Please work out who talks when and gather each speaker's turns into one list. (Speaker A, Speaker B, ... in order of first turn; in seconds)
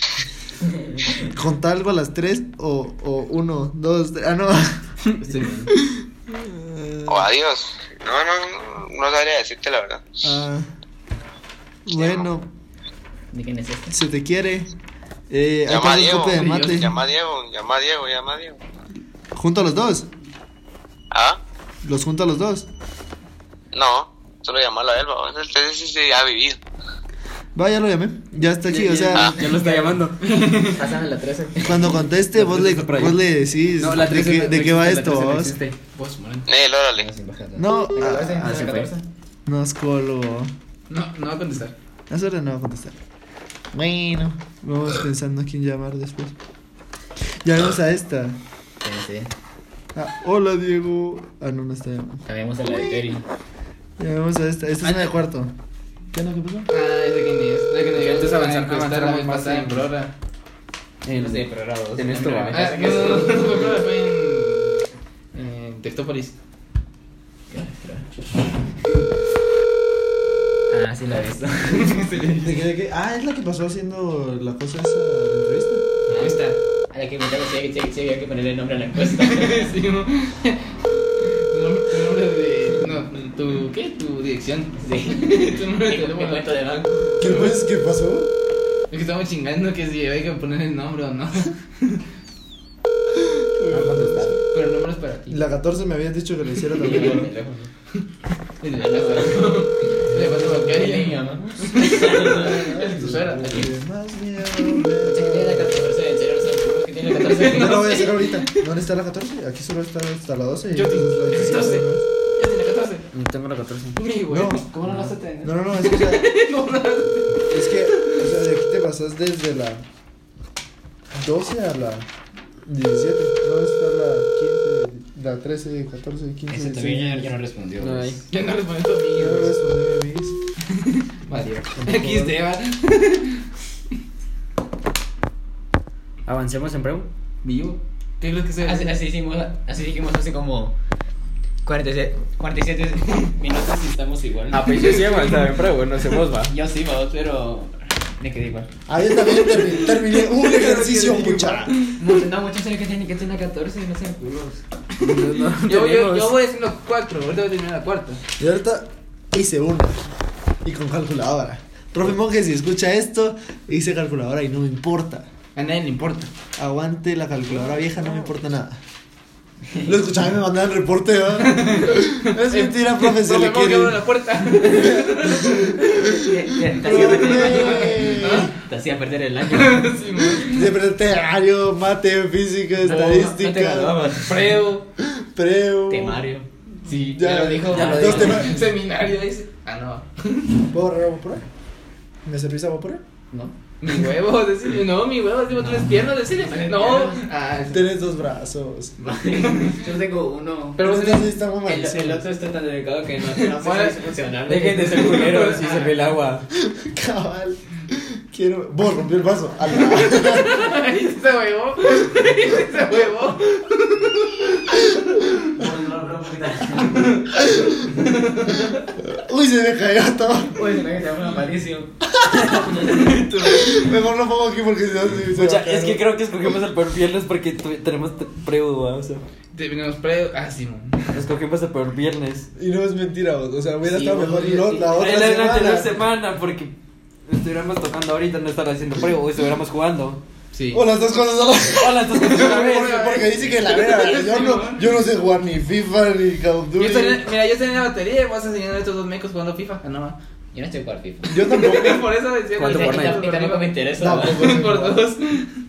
Speaker A: 1.2-4.9, 5.9-7.3, 10.2-10.7, 11.9-12.5, 13.9-14.7, 15.3-16.9, 19.3-20.1, 21.8-22.7, 27.6-29.3, 31.6-35.6, 37.6-38.7, 39.5-40.5, 42.1-43.0, 43.7-46.4, 47.4-48.4, 50.0-53.0, 54.0-55.5, 56.1-56.7, 72.4-75.8, 87.2-88.3, 93.6-94.4, 95.3-97.3, 102.4-105.9, 107.5-112.0, 114.3-114.7, 115.4-116.3, 117.5-119.8, 121.1-122.1, 122.7-127.3, 129.1-130.4, 131.8-132.3, 148.9-151.7, 158.4-160.0, 160.6-165.3, 166.6-168.8, 169.8-174.0, 176.7-178.5, 180.4-184.0, 185.0-186.2, 187.1-188.6, 190.7-191.4, 192.2-193.0, 197.7-199.1, 200.8-202.2, 206.5-210.7, 219.0-220.6, 223.4-226.0, 232.6-236.0, 240.7-247.2, 251.3-252.1, 254.0-255.0
Speaker B: 5.2-5.7, 13.3-14.0, 28.9-31.9, 37.0-39.0, 48.8-49.3, 52.3-53.2, 61.1-63.8, 67.5-68.1, 70.7-72.0, 76.1-79.7, 84.8-87.2, 96.8-97.7, 98.8-102.7, 105.0-108.0, 114.7-115.5, 126.5-128.2, 138.6-140.7, 141.6-145.0, 146.5-148.7, 152.0-154.6, 175.8-179.9, 182.8-184.4, 185.9-188.5, 196.5-197.2, 199.0-200.8, 201.7-206.0, 215.6-217.2, 220.5-221.9, 233.8-235.0, 250.5-251.7, 252.6-254.5
Speaker C: 7.1-10.0, 11.9-12.3, 15.7-18.6, 21.1-21.4, 23.7-26.6, 36.5-37.1
Speaker D: 28.8-30.2, 32.3-33.2, 33.8-35.8, 38.4-38.9, 57.9-59.9, 61.0-62.8, 113.1-114.0, 127.8-128.2, 136.3-137.1, 144.5-146.5, 155.0-156.3, 204.5-206.5, 225.3-229.2, 231.1-232.5, 234.9-236.7, 237.3-240.2, 241.7-243.2, 252.6-253.3
Speaker E: 30.3-30.7, 36.0-36.5, 40.9-41.8, 56.7-60.1, 62.5-64.8, 65.3-66.3, 71.7-72.6, 76.2-76.5, 79.2-80.6, 81.3-86.5, 87.2-87.5, 88.9-92.0, 94.4-95.5, 96.9-97.2, 98.6-103.7, 107.2-108.6, 110.7-111.9, 112.4-113.1, 114.0-114.7, 115.8-118.1, 128.3-129.5, 130.7-133.4, 137.4-139.0, 149.5-151.9, 155.0-158.2, 165.6-166.3, 171.4-175.8, 176.9-178.5, 179.5-180.7, 184.2-184.9, 187.7-190.5, 193.8-197.9, 199.5-199.8, 200.8-201.3, 203.4-204.0, 205.0-205.9, 209.9-214.6, 216.9-217.2, 218.1-218.7, 222.8-223.9, 229.5-231.1, 240.5-240.8, 242.2-244.9, 246.8-250.2, 251.5-255.5